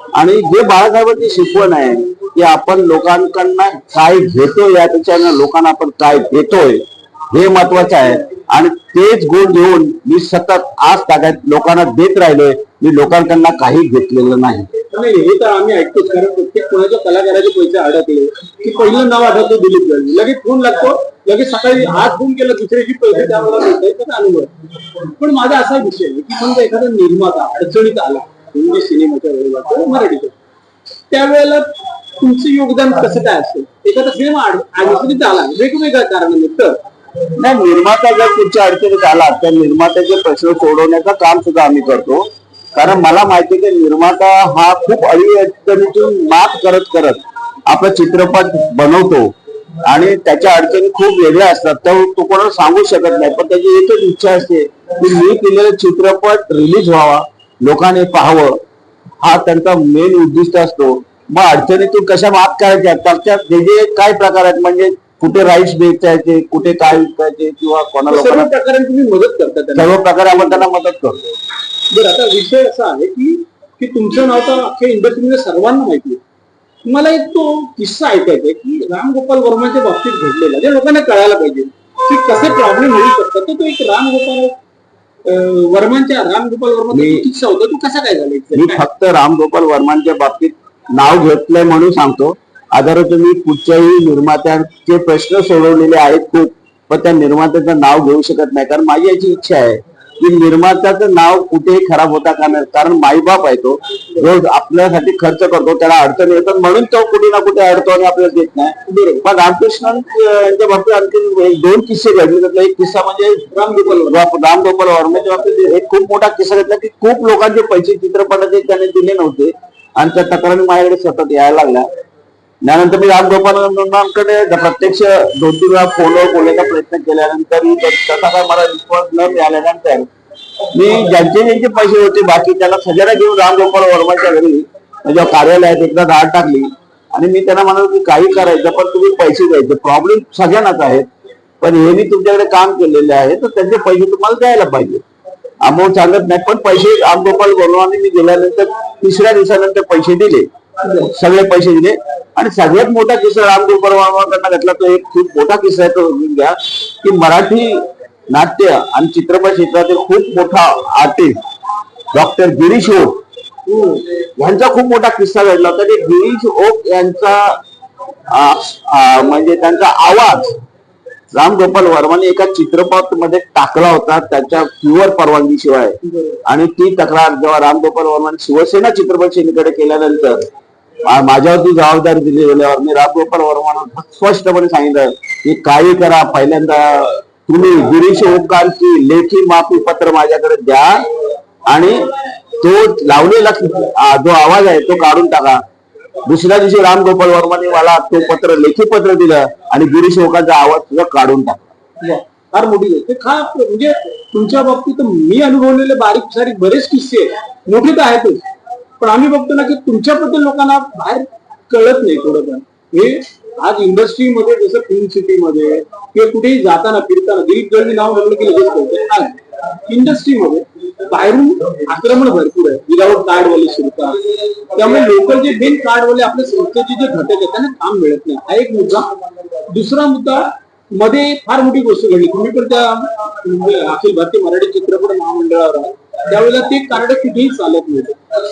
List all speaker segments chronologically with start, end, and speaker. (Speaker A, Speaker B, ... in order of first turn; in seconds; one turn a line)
Speaker A: 0.1-14.7
Speaker B: 14.9-30.3
Speaker B: 31.1-31.7
Speaker B: 32.2-36.7
Speaker A: 37.3-49.3
Speaker A: 49.8-58.6
Speaker A: 59.2-68.5
Speaker B: 68.1-70.6
Speaker A: 69.7-71.3
Speaker B: 71.9-76.2
Speaker B: 76.8-84.5
Speaker B: 85.2-88.8
Speaker A: 86.9-87.2
Speaker A: 88.5-121.9
Speaker B: 108.9-109.2
Speaker B: 113.5-114.2
Speaker A: 122.6-130.1
Speaker A: 130.7-141.1
Speaker A: 141.6-145.0
Speaker A: 145.6-161.4
Speaker B: 150.8-151.1
Speaker A: 162.1-163.2
Speaker B: 163.7-164.0
Speaker A: 164.4-167.6
Speaker A: 168.3-170.5
Speaker A: 171.3-180.5
Speaker B: 176.1-176.4
Speaker A: 181.0-191.0
Speaker A: 191.7-195.6
Speaker A: 196.2-201.7
Speaker B: 202.0-208.4
Speaker B: 209.0-224.2
Speaker B: 224.7-229.1
Speaker B: 229.7-238.2